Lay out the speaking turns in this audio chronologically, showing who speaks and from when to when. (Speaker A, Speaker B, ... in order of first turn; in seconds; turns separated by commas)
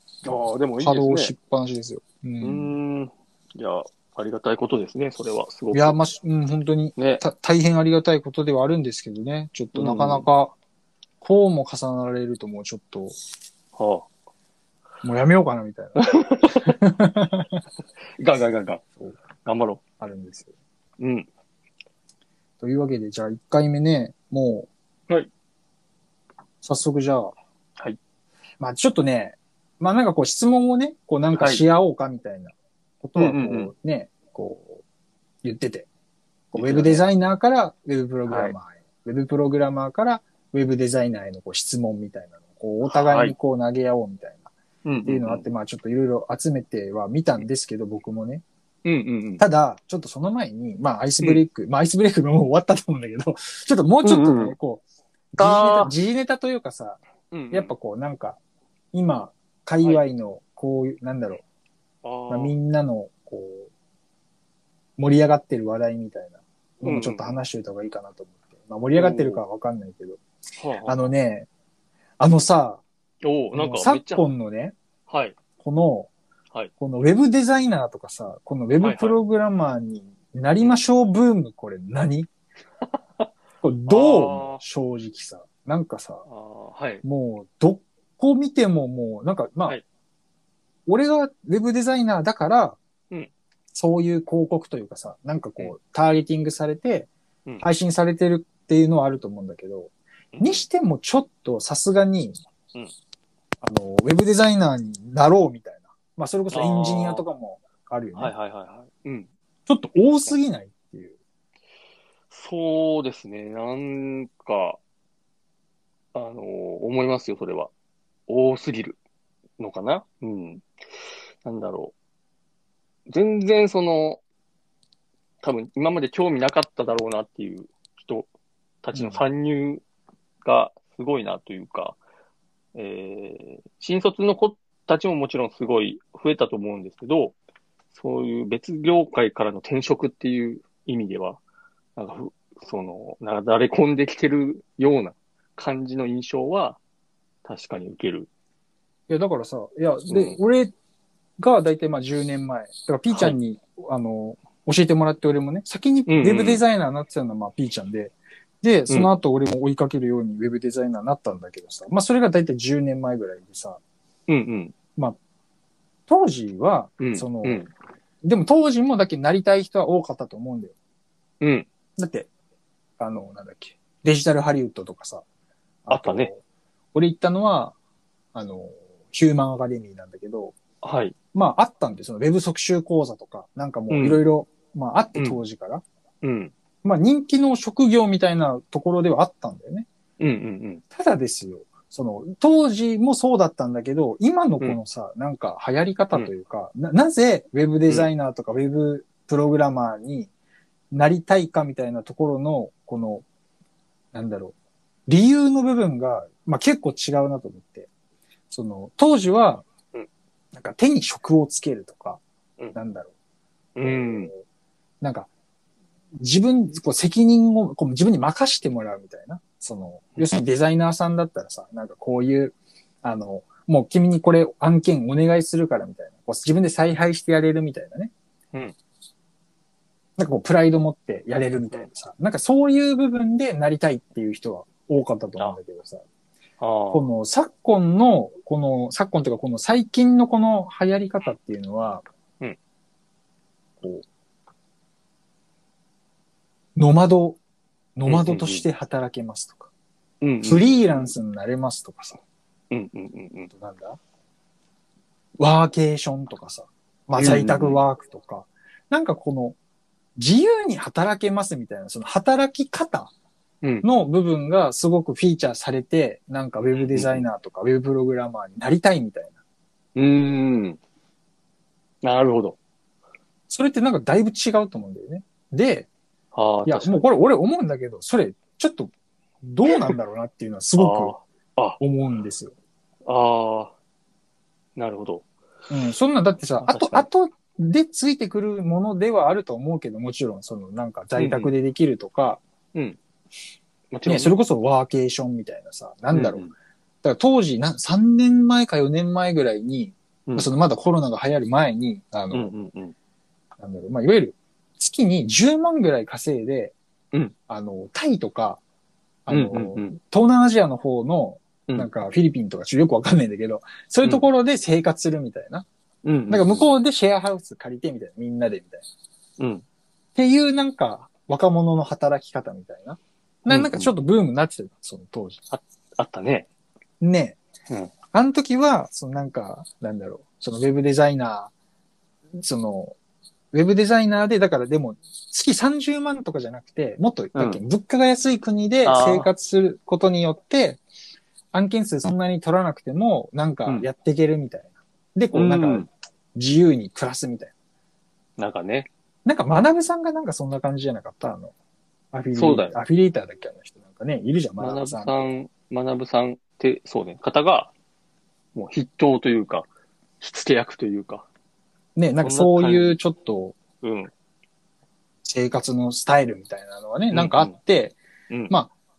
Speaker A: 0.2-1.3, Speaker B: 0.2-2.7, Speaker A: 2.4-6.0, Speaker B: 5.7-10.6, Speaker A: 7.0-7.2, Speaker A: 9.7-10.3, Speaker B: 11.2-13.2, Speaker A: 13.8-14.1, Speaker B: 15.0-17.6, Speaker A: 16.0-16.8, Speaker A: 18.2-18.8, Speaker A: 19.4-19.8, Speaker B: 20.0-20.5, Speaker A: 21.0-21.3, Speaker B: 22.6-24.7, Speaker B: 26.6-27.4, Speaker B: 28.6-34.8, Speaker A: 31.4-31.6, Speaker A: 33.2-33.7, Speaker B: 35.4-35.9, Speaker A: 36.5-37.1, Speaker B: 36.5-44.5, Speaker A: 38.3-38.5, Speaker A: 42.9-43.3, Speaker A: 44.9-45.5, Speaker B: 45.0-48.4, Speaker A: 48.9-49.5, Speaker B: 49.4-57.0, Speaker A: 54.0-54.6, Speaker A: 55.4-55.9, Speaker A: 57.3-57.7, Speaker B: 57.5-58.4, Speaker B: 58.9-61.4, Speaker A: 62.0-62.6, Speaker B: 62.3-63.7, Speaker B: 65.0-70.2, Speaker A: 66.8-67.4, Speaker A: 69.0-69.4, Speaker A: 70.6-71.1, Speaker B: 70.9-71.5, Speaker B: 72.2-72.8, Speaker A: 73.2-74.3, Speaker B: 73.5-74.8, Speaker A: 75.1-75.4, Speaker B: 75.6-76.1, Speaker B: 76.8-82.3, Speaker A: 78.8-79.2, Speaker B: 83.6-86.2, Speaker A: 83.9-84.6, Speaker A: 86.3-87.0, Speaker B: 87.0-89.8, Speaker B: 90.9-92.8, Speaker B: 93.7-97.1, Speaker B: 97.6-102.4, Speaker A: 100.3-100.7, Speaker B: 103.6-108.3, Speaker A: 106.5-107.3, Speaker A: 108.2-109.3, Speaker B: 109.7-111.2, Speaker A: 112.3-114.8, Speaker A: 116.1-117.7, Speaker A: 118.3-119.0, Speaker A: 119.6-120.7, Speaker A: 121.4-121.9, Speaker A: 123.1-124.2, Speaker A: 125.4-128.3, Speaker A: 128.8-129.8, Speaker B: 128.9-129.2, Speaker A: 130.4-132.0, Speaker A: 132.8-137.4, Speaker A: 137.9-141.4, Speaker A: 142.0-146.8, Speaker A: 147.4-148.3, Speaker B: 149.1-150.7, Speaker A: 150.1-150.4, Speaker B: 151.4-163.8, Speaker A: 153.1-153.3, Speaker A: 156.1-156.6, Speaker A: 164.3-164.8, Speaker B: 166.1-167.6, Speaker A: 167.0-167.7, Speaker B: 168.2-170.8, Speaker A: 171.4-171.7, Speaker B: 172.0-172.3, Speaker B: 173.0-175.2, Speaker B: 175.9-176.4, Speaker A: 175.9-176.3, Speaker B: 176.9-177.8, Speaker B: 178.3-180.6, Speaker A: 180.8-181.2, Speaker B: 181.3-185.8, Speaker A: 183.9-184.2, Speaker A: 185.2-185.4, Speaker A: 186.2-186.5, Speaker B: 186.8-189.9, Speaker A: 190.2-190.8, Speaker B: 190.9-200.3, Speaker B: 200.9-203.2, Speaker B: 204.1-204.6, Speaker B: 205.1-207.9, Speaker B: 208.5-209.7, Speaker B: 210.5-212.2, Speaker B: 212.7-213.1, Speaker A: 213.8-214.3, Speaker B: 213.8-214.4, Speaker B: 215.0-215.3, Speaker B: 216.2-228.1, Speaker B: 230.2-236.0, Speaker A: 236.6-237.1, Speaker B: 236.9-242.0, Speaker B: 243.8-244.1, Speaker B: 246.8-247.4, Speaker B: 248.0-249.7, Speaker A: 248.1-248.7, Speaker A: 250.2-251.1, Speaker B: 250.4-252.2, Speaker A: 252.7-253.5, Speaker B: 253.5-254.0, Speaker B: 255.4-259.6, Speaker A: 257.2-257.8, Speaker B: 260.2-263.1, Speaker A: 263.6-263.9, Speaker B: 263.8-269.4, Speaker A: 266.7-267.2, Speaker A: 269.9-270.8, Speaker A: 272.0-272.6, Speaker B: 273.5-275.9, Speaker A: 276.3-277.0, Speaker B: 276.6-278.9, Speaker B: 279.4-281.1, Speaker A: 279.7-279.9, Speaker A: 280.8-281.8, Speaker B: 281.8-282.5, Speaker A: 283.1-283.7, Speaker A: 284.8-285.2, Speaker B: 285.7-292.4, Speaker A: 286.6-287.1, Speaker A: 291.2-291.5, Speaker A: 293.9-294.4, Speaker B: 294.1-296.4, Speaker A: 296.1-296.5, Speaker B: 297.0-302.5, Speaker A: 302.3-302.9, Speaker B: 303.6-306.8, Speaker B: 307.5-308.6, Speaker B: 309.3-315.7, Speaker A: 309.3-310.0, Speaker A: 316.0-316.7, Speaker B: 316.3-318.9, Speaker A: 319.4-319.6, Speaker B: 320.1-325.4, Speaker A: 323.5-323.9, Speaker A: 325.5-326.5, Speaker B: 327.0-327.4, Speaker B: 328.1-331.5, Speaker B: 332.4-332.9, Speaker B: 333.5-340.8, Speaker A: 337.4-337.6, Speaker A: 338.9-339.3, Speaker B: 341.5-347.5, Speaker A: 345.3-345.9, Speaker A: 348.4-348.9, Speaker B: 349.2-351.5, Speaker B: 352.1-355.2, Speaker A: 352.4-352.8, Speaker A: 354.6-357.7, Speaker A: 358.6-359.7, Speaker A: 360.2-361.3, Speaker B: 362.0-363.6, Speaker A: 362.2-363.0, Speaker A: 363.8-364.1, Speaker B: 365.2-368.0, Speaker A: 367.1-367.6, Speaker A: 368.3-368.6